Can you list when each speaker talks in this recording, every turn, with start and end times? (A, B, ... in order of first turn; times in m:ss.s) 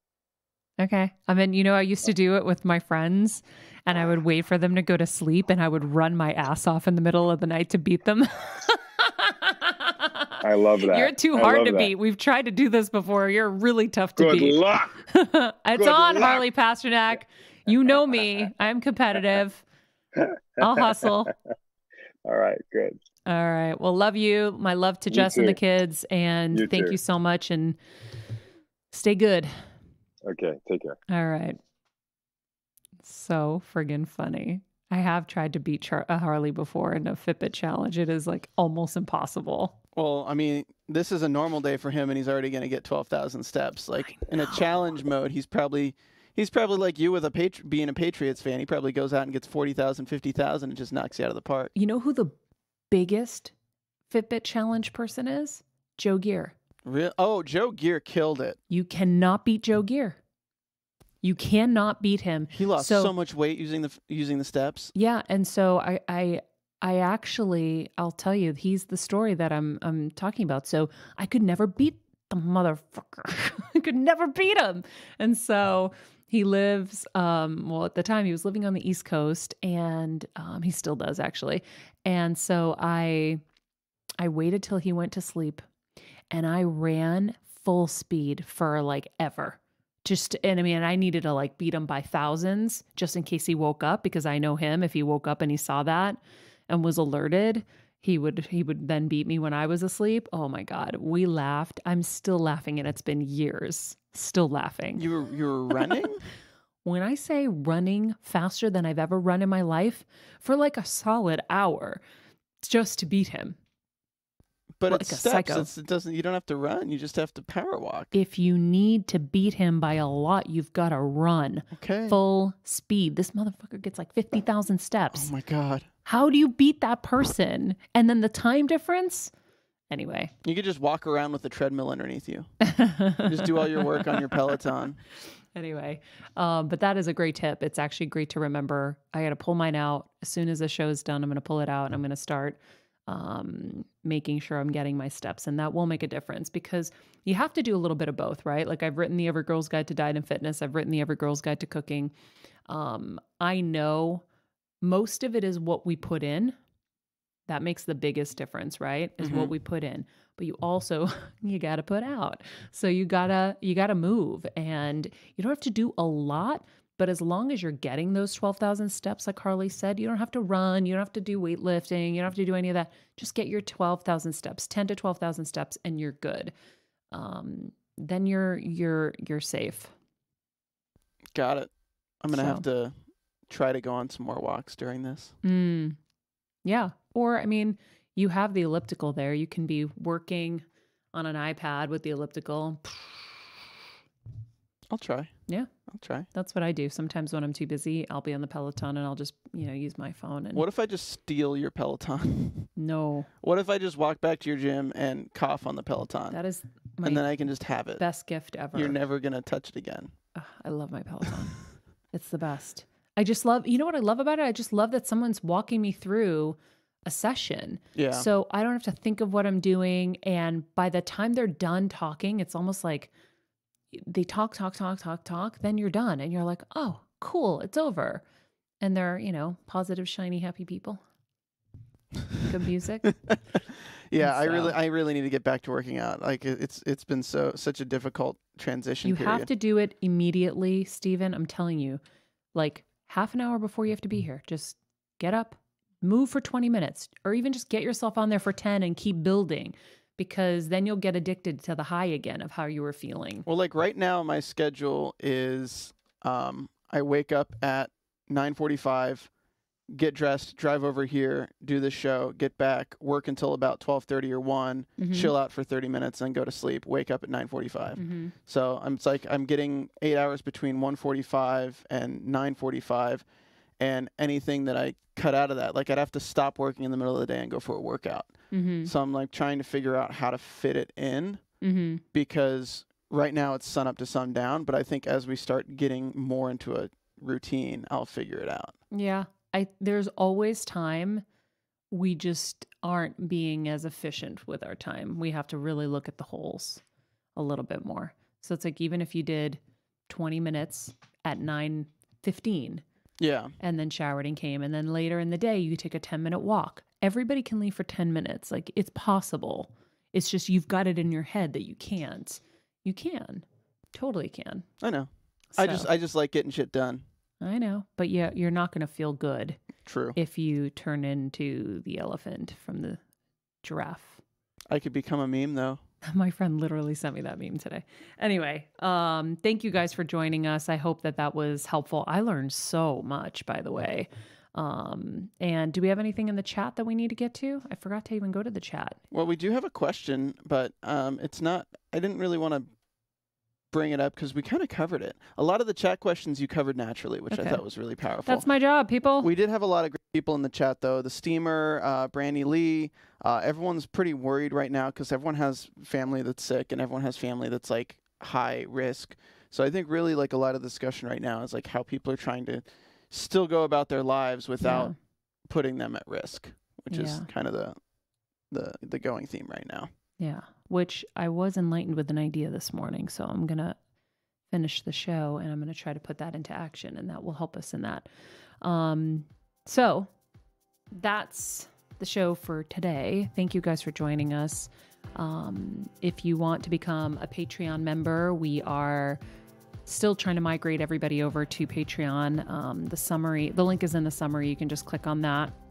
0:00.8-0:19.6 A
0:10.4-0:11.9 B
0:14.2-0:15.0 B
0:15.8-0:16.4 B
0:20.1-0:21.3 B
0:20.6-0:21.3 A
0:22.2-0:23.0 B
0:23.2-0:27.8 A
0:25.1-0:25.6 B
0:26.5-0:27.0 B
0:28.9-0:29.5 A
0:30.2-0:31.0 B
0:31.1-0:31.6 A
0:33.0-0:39.7 A
0:39.9-0:51.7 C
0:51.7-0:52.4 A
0:52.9-0:53.5 A
0:54.1-0:56.5 A
0:56.8-0:58.6 C
0:58.7-1:00.2 A
1:01.2-1:03.1 A
1:02.5-1:04.9 C
1:04.9-1:23.4 A
1:24.2-1:25.6 A
1:26.3-1:45.0 A
1:45.0-1:46.2 C
1:46.8-1:52.0 A
1:52.6-1:53.6 A
1:54.8-1:58.1 C
1:54.9-1:55.7 A
1:58.1-2:05.3 A
2:01.7-2:02.2 C
2:05.1-2:05.9 C
2:06.0-2:09.3 A
2:09.9-2:10.3 A
2:10.4-2:12.5 C
2:12.6-2:14.1 A
2:13.2-2:15.0 C
2:15.5-2:32.1 A
2:32.7-2:34.2 A
2:34.8-2:36.6 A
2:37.5-2:56.5 A
2:39.2-2:39.5 C
2:57.1-2:59.9 A
3:01.3-3:03.0 C
3:02.3-3:02.6 A
3:03.5-3:05.3 C
3:05.4-3:06.0 A
3:06.6-3:13.6 A
3:14.9-3:15.3 C
3:15.9-3:16.3 C
3:16.3-3:20.6 A
3:20.5-3:22.7 C
3:22.8-3:23.3 A
3:23.4-3:26.4 C
3:26.3-3:27.3 A
3:27.0-3:28.0 C
3:28.0-3:29.0 A
3:28.7-3:30.1 C
3:30.3-3:31.6 A
3:32.1-3:43.1 A
3:37.9-3:38.3 C
3:43.9-3:48.2 A
3:48.8-3:51.0 A
3:52.4-3:53.1 A
3:54.1-3:59.5 C
3:54.2-3:54.7 A
3:59.0-4:02.0 A
4:02.5-4:13.4 A
4:13.4-4:19.3 C
4:19.9-4:33.2 C
4:25.0-4:25.3 A
4:28.0-4:28.3 A
4:33.8-4:41.4 C
4:38.5-4:38.9 A
4:41.6-4:42.0 A
4:42.1-4:48.8 C
4:48.9-4:51.2 A
4:51.9-4:56.8 A
4:57.4-5:02.8 A
5:03.2-5:03.5 C
5:03.6-5:14.7 A
5:14.8-5:17.0 C
5:15.5-5:15.9 A
5:17.4-5:19.6 A
5:19.8-5:20.2 C
5:20.1-5:23.0 A
5:23.6-5:24.2 A
5:24.7-5:25.8 C
5:26.1-5:39.0 A
5:39.1-5:42.7 C
5:43.7-5:48.4 C
5:47.3-5:47.6 A
5:48.2-5:49.3 A
5:49.2-6:04.9 C
6:04.6-6:04.9 A
6:05.5-6:07.8 C
6:06.9-6:07.3 A
6:08.5-6:09.9 C
6:10.2-6:13.8 A
6:14.5-6:18.1 A
6:18.6-6:20.1 A
6:20.9-6:29.2 A
6:29.8-6:35.5 A